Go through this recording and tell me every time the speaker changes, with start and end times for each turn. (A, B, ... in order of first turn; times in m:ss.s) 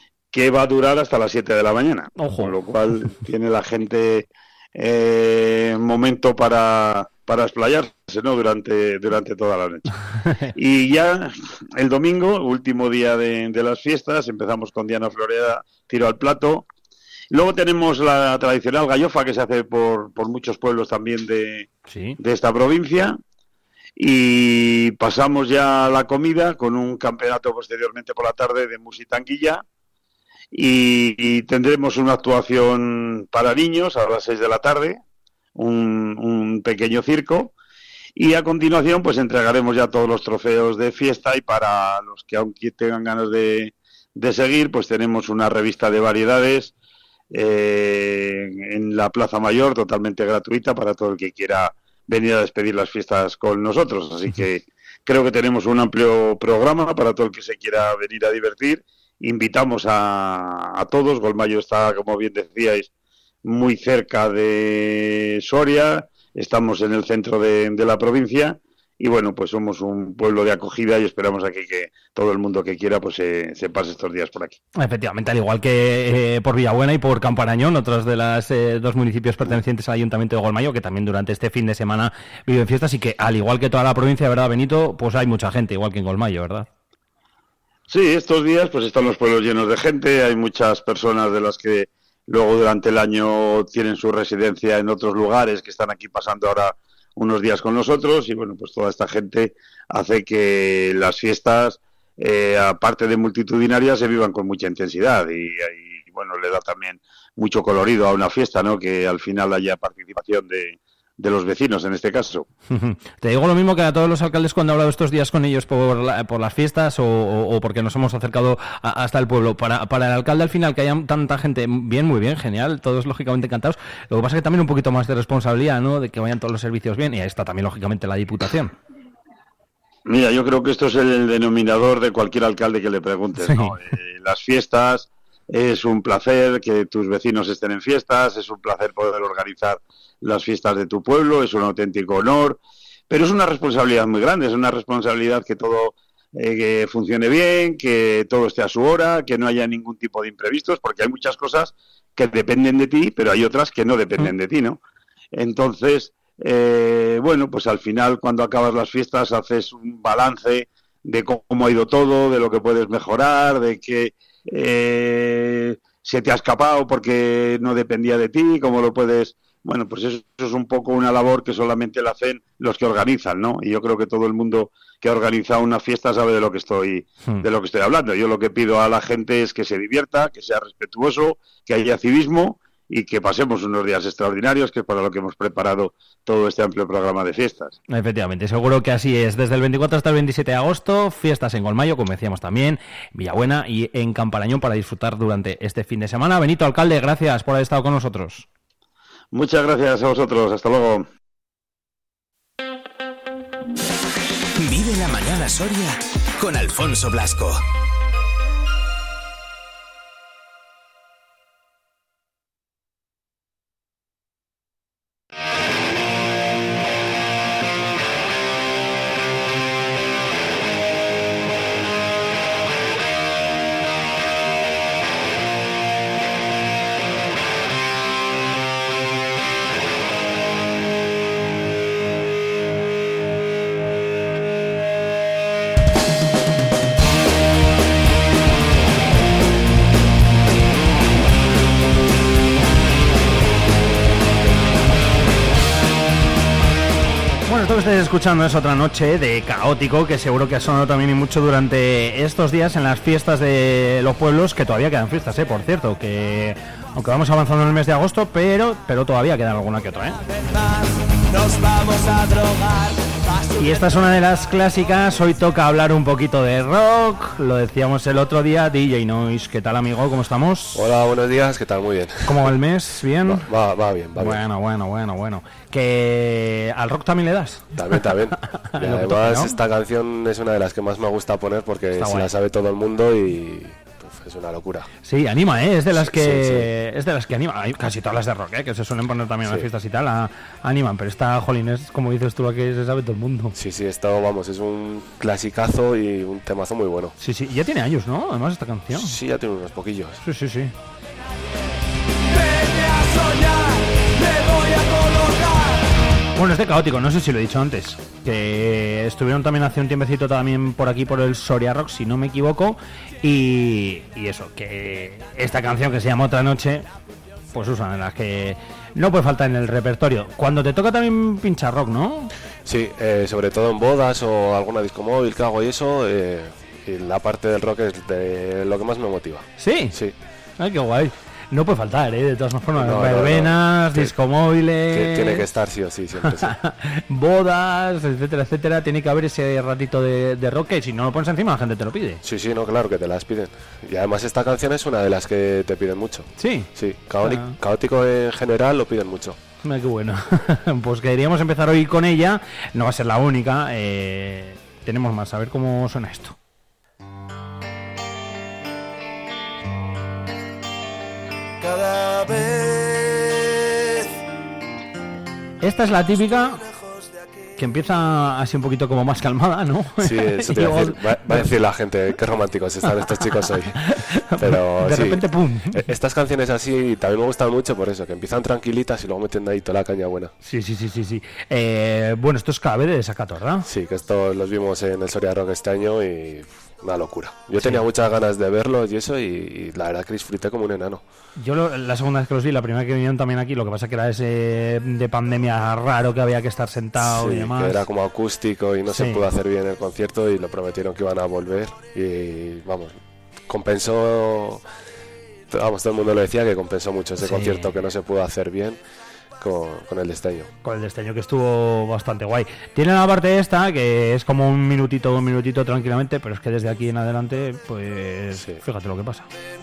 0:00.3-0:09.9 A
0:02.2-0:02.6 B
0:10.5-0:16.7 A
0:17.3-0:21.7 A
0:21.9-0:22.2 B
0:22.2-0:23.2 A
0:24.0-0:29.6 A
0:30.5-0:35.0 A
0:35.6-0:37.5 A
0:38.2-0:46.7 A
0:47.3-1:02.9 A
1:03.4-1:14.6 A
1:14.8-1:26.7 B
1:27.9-1:52.5 A
1:52.7-2:08.7 B
2:10.1-2:34.8 A
2:13.4-2:13.8 B
2:35.3-3:07.8 A
3:07.9-3:18.5 B
3:19.3-3:21.0 A
3:24.6-3:27.6 C
4:07.5-4:20.2 B
4:21.3-4:23.6 D
4:23.6-4:30.9 B
4:30.8-4:32.5 E
4:32.3-4:33.5 B
4:33.2-4:34.4 E
4:34.2-4:37.8 B
4:37.8-4:44.9 E
4:38.7-4:39.6 B
4:42.0-4:42.3 B
4:45.0-4:53.6 B
4:45.9-4:46.7 E
4:53.6-4:57.1 E
4:57.2-4:59.2 B
4:58.9-5:00.2 E
5:00.2-5:00.7 B
5:02.3-5:05.8 D
5:06.4-5:16.9 B
5:17.5-5:22.3 B
5:22.6-5:30.2 E
5:29.6-5:30.0 B
5:30.6-5:35.4 B
5:32.7-5:34.2 E
5:34.9-5:36.5 E
5:36.3-5:42.2 B
5:42.2-5:49.4 E
5:46.4-5:46.7 B
5:47.2-5:47.6 B
5:49.6-5:56.4 B
6:01.6-6:02.7 D
6:05.6-6:06.6 B
6:07.6-6:11.5 B
6:10.0-6:13.8 E
6:13.4-6:15.8 B
6:14.4-6:20.3 E
6:20.4-6:23.7 B
6:23.6-6:31.0 E
6:27.6-6:27.8 B
6:31.4-6:37.9 B
6:37.0-6:44.6 E
6:38.9-6:39.2 B
6:45.5-6:48.8 E
6:47.2-6:47.7 B
6:49.4-6:50.5 E
6:50.6-6:59.3 B
6:58.4-6:58.6 E